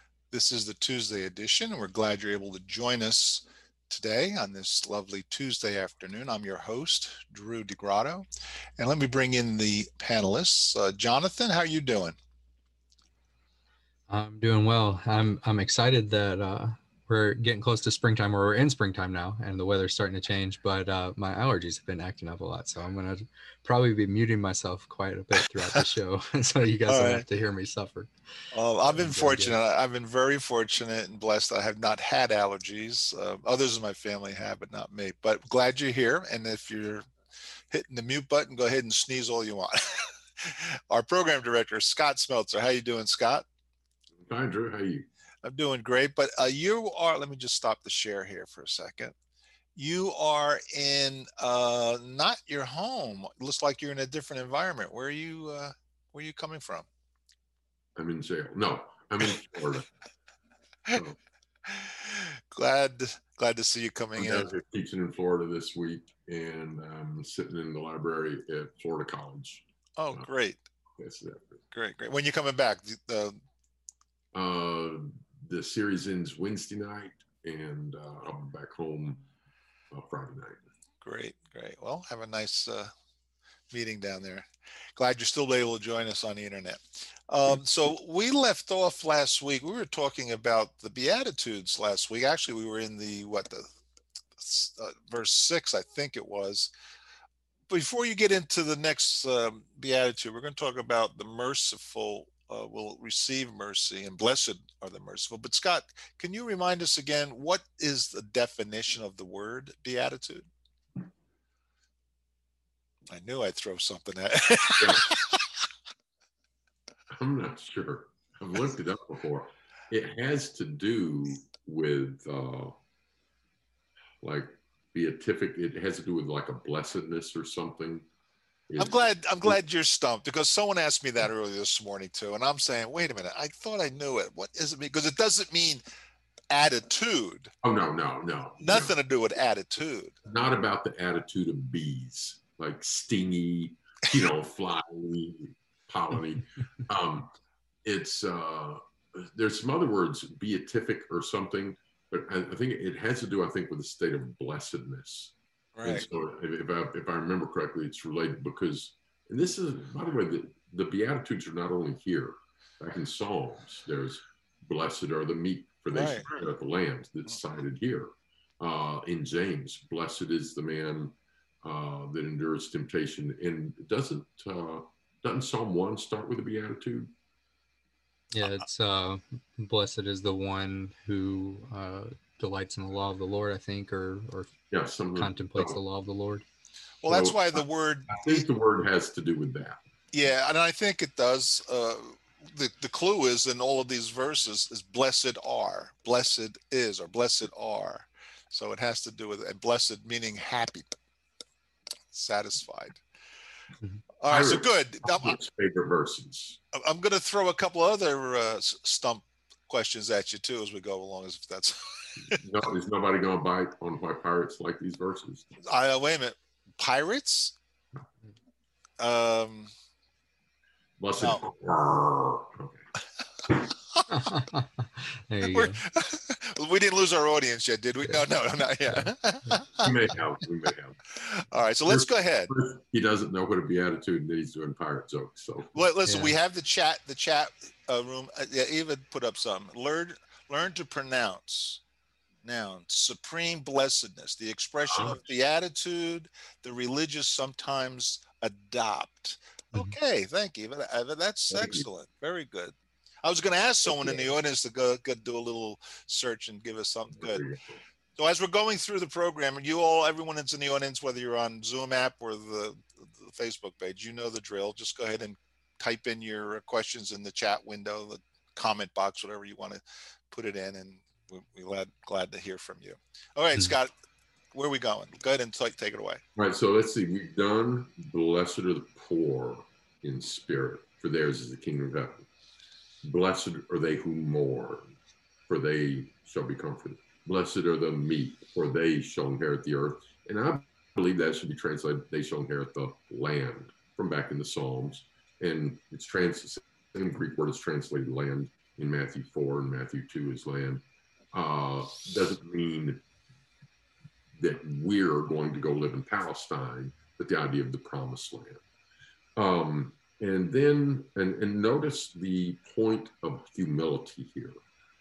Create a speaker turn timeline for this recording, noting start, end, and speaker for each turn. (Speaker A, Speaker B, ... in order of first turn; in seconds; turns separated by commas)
Speaker A: 0.3-8.2, Speaker A: 8.8-12.2, Speaker B: 14.1-28.1, Speaker A: 25.4-25.8, Speaker A: 26.9-27.2, Speaker A: 28.5-37.0, Speaker B: 28.9-29.6, Speaker A: 37.7-43.5, Speaker C: 44.3-45.1, Speaker A: 45.4-49.1, Speaker A: 49.8-56.9, Speaker C: 58.0-59.9, Speaker C: 60.9-61.2, Speaker A: 61.7-64.5, Speaker C: 64.2-70.2, Speaker A: 70.0-70.7, Speaker C: 71.0-71.6, Speaker A: 71.7-73.4, Speaker C: 74.3-79.2, Speaker C: 79.9-80.6, Speaker A: 81.0-82.9, Speaker A: 83.7-93.7, Speaker A: 94.4-96.7, Speaker A: 97.7-110.5, Speaker A: 113.1-115.4, Speaker C: 114.8-115.0, Speaker C: 117.1-122.8, Speaker C: 124.2-128.1, Speaker C: 128.7-129.6, Speaker A: 128.8-135.8, Speaker A: 136.5-137.5, Speaker C: 137.6-138.9, Speaker A: 138.6-140.2, Speaker C: 140.2-147.3, Speaker C: 147.8-177.1, Speaker A: 155.8-156.1, Speaker A: 165.9-166.3, Speaker B: 178.3-184.5, Speaker C: 184.7-185.8, Speaker B: 185.2-186.4, Speaker A: 187.0-188.4, Speaker C: 187.1-189.8, Speaker A: 190.1-200.9, Speaker A: 202.1-203.0, Speaker A: 204.2-205.4, Speaker C: 204.3-206.6, Speaker A: 206.7-212.4, Speaker C: 212.3-215.5, Speaker A: 215.6-217.6, Speaker A: 219.0-219.7, Speaker C: 221.0-222.8, Speaker A: 221.2-221.4, Speaker A: 224.0-224.3, Speaker B: 224.1-225.8, Speaker A: 225.4-229.9, Speaker C: 229.8-231.0, Speaker A: 231.1-232.5, Speaker C: 231.9-235.8, Speaker A: 235.7-241.8, Speaker B: 236.1-236.3, Speaker A: 242.4-257.5, Speaker C: 244.9-245.2, Speaker C: 251.5-251.8, Speaker C: 253.9-254.2, Speaker C: 257.2-257.8, Speaker A: 258.2-273.9, Speaker A: 274.5-276.2, Speaker C: 276.4-282.3, Speaker C: 283.0-284.9, Speaker C: 285.5-303.0, Speaker C: 304.4-308.6, Speaker C: 309.4-314.6